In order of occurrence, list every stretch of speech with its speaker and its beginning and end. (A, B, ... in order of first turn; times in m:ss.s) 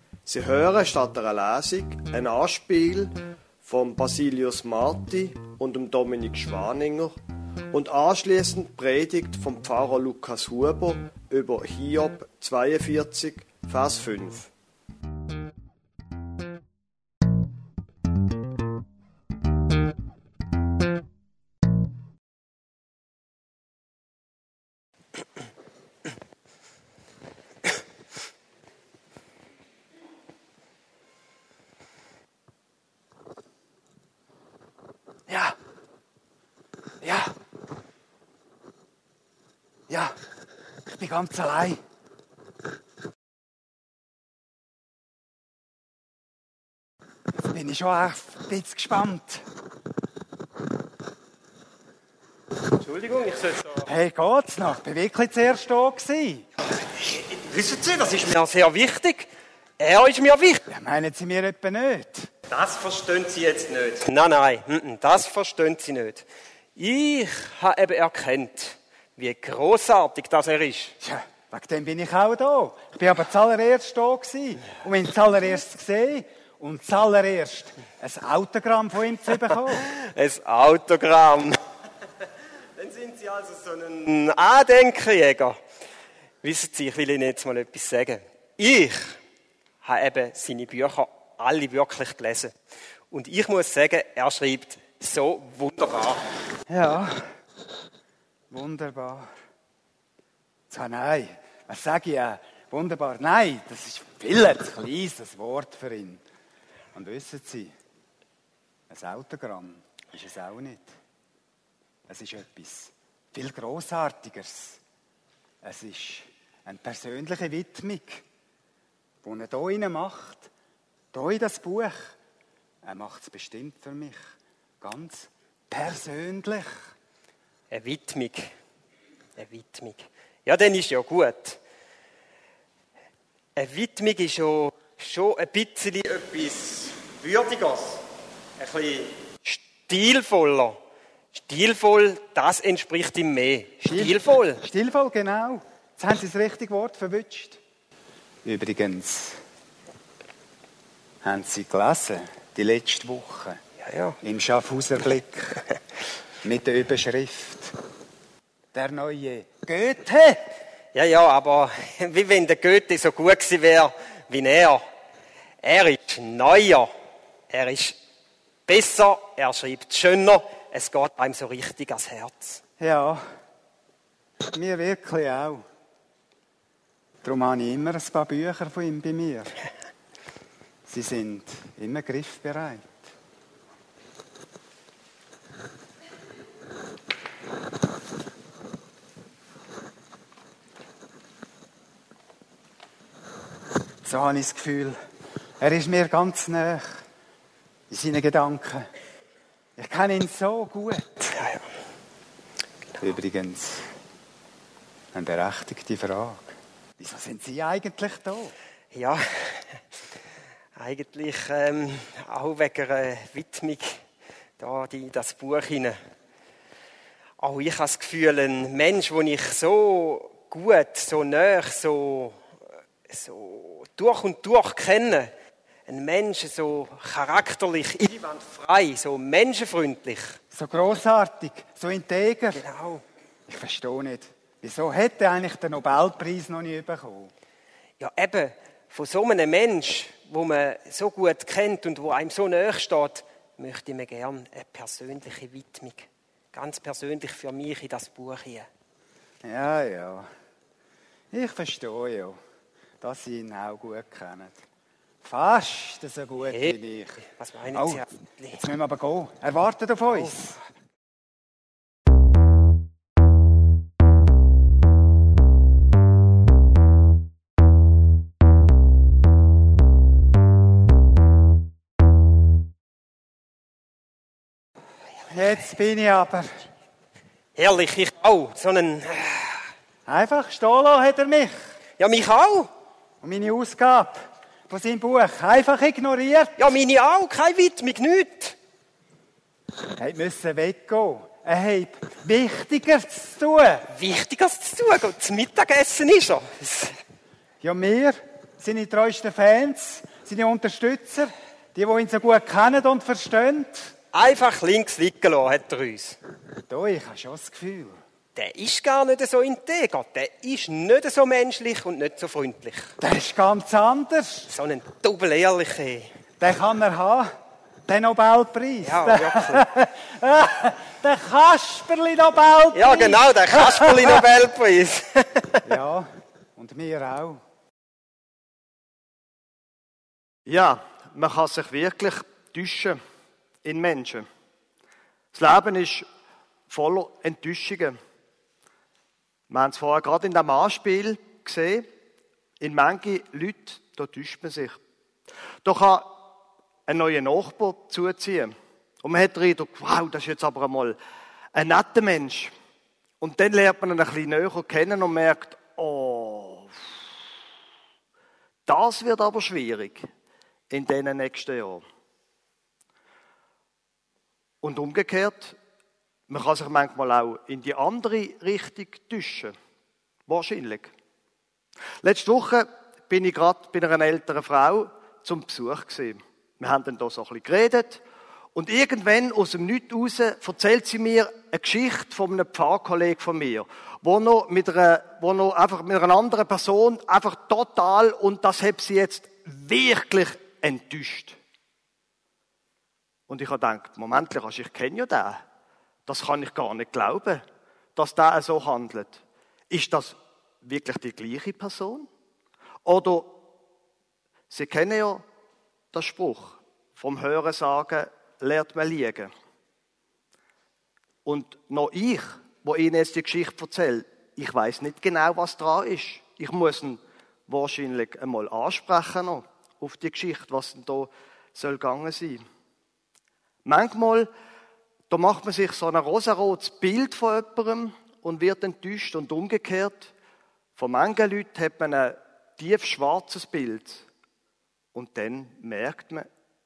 0:00.2-0:07.1 A
0:07.7-0:14.5 A
0:35.3-0:35.6 B
0:37.0-0:37.3 B
0:39.9-0:40.2 B
0:40.8-0:41.8 B
0:47.3-0:49.4 B
0:52.6-0:53.9 C
0:53.8-0:56.5 B
0:56.8-1:00.6 C
1:00.7-1:02.3 B
1:02.5-1:10.9 C
1:11.0-1:19.9 B
1:19.7-1:21.6 C
1:22.8-1:25.6 C
1:26.4-1:29.2 C
1:29.8-1:32.5 C
1:33.1-1:36.2 C
1:36.7-1:37.3 B
1:38.5-1:39.3 B
1:40.7-1:46.2 B
1:46.9-1:47.7 B
1:48.9-1:50.9 B
1:52.1-1:54.8 B
1:55.6-1:58.2 B
1:59.2-2:00.5 B
2:01.1-2:02.2 B
2:02.8-2:04.2 B
2:04.8-2:06.8 B
2:07.7-2:08.5 C
2:09.4-2:11.6 C
2:13.6-2:18.0 C
2:18.6-2:20.8 C
2:21.3-2:24.6 C
2:23.8-2:27.6 B
2:28.4-2:29.4 B
2:31.2-2:33.6 B
2:33.8-2:34.2 C
2:34.2-2:35.6 B
2:36.4-2:37.8 B
2:38.7-2:40.4 B
2:40.9-2:44.8 C
2:45.6-2:46.9 C
2:47.5-2:48.0 C
2:48.7-2:52.6 C
2:52.8-2:53.2 B
2:54.5-2:55.6 B
2:57.2-2:59.6 B
3:00.9-3:03.0 B
3:14.0-3:15.0 B
3:15.6-3:17.0 B
3:17.9-3:18.9 B
3:19.8-3:21.0 B
3:21.2-3:21.6 C
3:23.0-3:23.9 B
3:25.1-3:28.5 B
3:28.9-3:29.8 C
3:30.8-3:34.0 C
3:34.6-3:36.0 C
3:37.4-3:42.4 C
3:43.1-3:45.3 C
3:45.9-3:50.4 C
3:50.5-3:52.6 B
3:52.5-3:53.0 C
3:53.5-3:57.3 B
3:58.0-4:08.7 C
4:09.4-4:10.3 B
4:11.3-4:12.4 B
4:13.0-4:14.6 B
4:15.2-4:18.0 B
4:16.5-4:18.6 C
4:18.6-4:20.6 B
4:20.1-4:20.5 C
4:35.2-4:36.5 B
4:37.6-4:39.6 C
4:40.0-4:41.6 B
4:42.0-4:42.7 C
4:43.2-4:46.6 B
4:46.6-4:48.6 C
4:50.0-4:53.9 B
4:53.9-4:56.9 C
4:57.6-5:03.9 B
5:04.1-5:06.2 C
5:06.7-5:08.0 B
5:08.4-5:12.9 C
5:13.0-5:14.5 B
5:14.5-5:16.1 C
5:16.4-5:17.3 B
5:17.8-5:24.2 B
5:18.8-5:19.7 C
5:22.7-5:25.8 C
5:25.6-5:27.4 B
5:30.4-5:33.0 A
5:33.6-5:34.2 A
5:35.3-5:36.0 A
5:36.7-5:37.9 A
5:39.5-5:41.8 A
5:42.6-5:44.8 A
5:45.6-5:46.2 A
5:46.9-5:51.0 A
5:51.5-5:52.5 A
5:53.2-5:56.8 A
5:58.6-6:00.0 A
6:00.7-6:01.8 A
6:04.6-6:05.6 A
6:06.3-6:09.5 A
6:10.3-6:10.9 A
6:12.0-6:18.0 A
6:18.5-6:31.4 A
6:33.3-6:35.4 A
6:36.1-6:37.4 A
6:38.0-6:42.1 A
6:42.8-6:43.4 A
6:44.5-6:45.2 A
6:45.9-6:49.3 A
6:51.2-7:02.4 A
7:03.6-7:04.3 A
7:05.1-7:10.1 A
7:10.8-7:14.1 A
7:14.9-7:16.3 A